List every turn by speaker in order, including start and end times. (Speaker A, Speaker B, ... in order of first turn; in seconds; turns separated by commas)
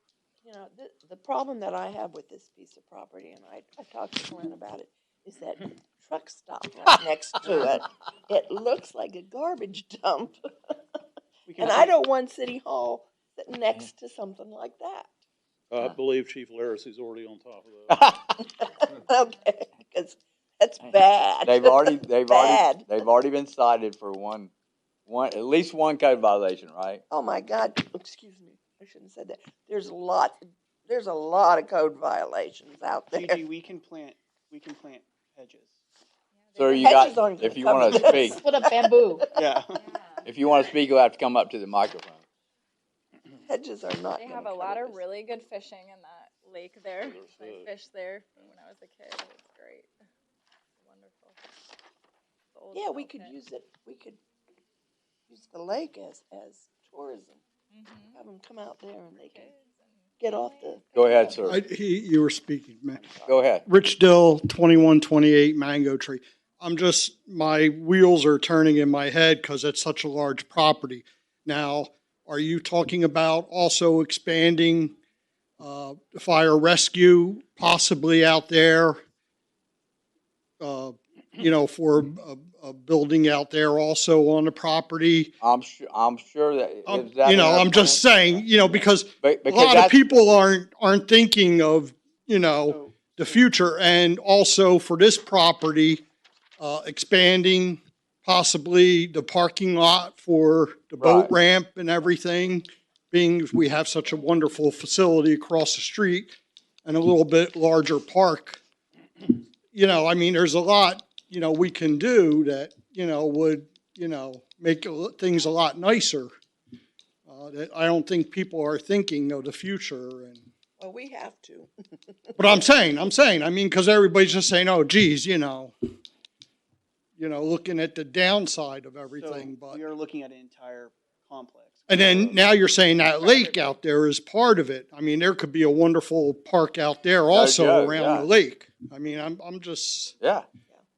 Speaker A: 0.4-10.4, Speaker B: 11.5-11.9, Speaker A: 11.6-15.1, Speaker C: 15.7-18.0, Speaker D: 17.9-18.4, Speaker A: 18.4-23.1, Speaker D: 20.8-24.5, Speaker D: 25.1-27.0, Speaker A: 27.1-33.4, Speaker B: 33.1-35.8, Speaker E: 36.3-37.2, Speaker D: 36.6-38.5, Speaker A: 36.8-39.3, Speaker E: 37.9-40.3, Speaker B: 39.4-39.8, Speaker D: 40.2-42.2, Speaker A: 43.4-45.0, Speaker E: 44.2-49.9, Speaker C: 47.0-47.7, Speaker E: 50.8-51.4, Speaker E: 52.5-53.4, Speaker A: 52.7-54.2, Speaker A: 55.3-57.4, Speaker E: 57.7-58.2, Speaker A: 58.1-59.5, Speaker E: 59.2-61.6, Speaker A: 60.2-60.9, Speaker D: 60.9-61.6, Speaker F: 61.4-63.1, Speaker A: 62.9-63.5, Speaker D: 63.3-63.6, Speaker F: 63.6-75.0, Speaker F: 75.6-79.0, Speaker F: 80.6-85.3, Speaker D: 85.4-90.0, Speaker F: 86.9-96.0, Speaker B: 92.7-93.4, Speaker F: 96.6-106.3, Speaker D: 101.0-101.3, Speaker F: 106.8-108.6, Speaker F: 109.7-116.3, Speaker F: 117.3-120.5, Speaker A: 120.8-122.5, Speaker F: 122.4-125.7, Speaker F: 127.2-129.8, Speaker B: 129.2-132.4, Speaker F: 131.9-140.2, Speaker A: 133.2-133.6, Speaker D: 137.3-138.3, Speaker D: 140.2-140.5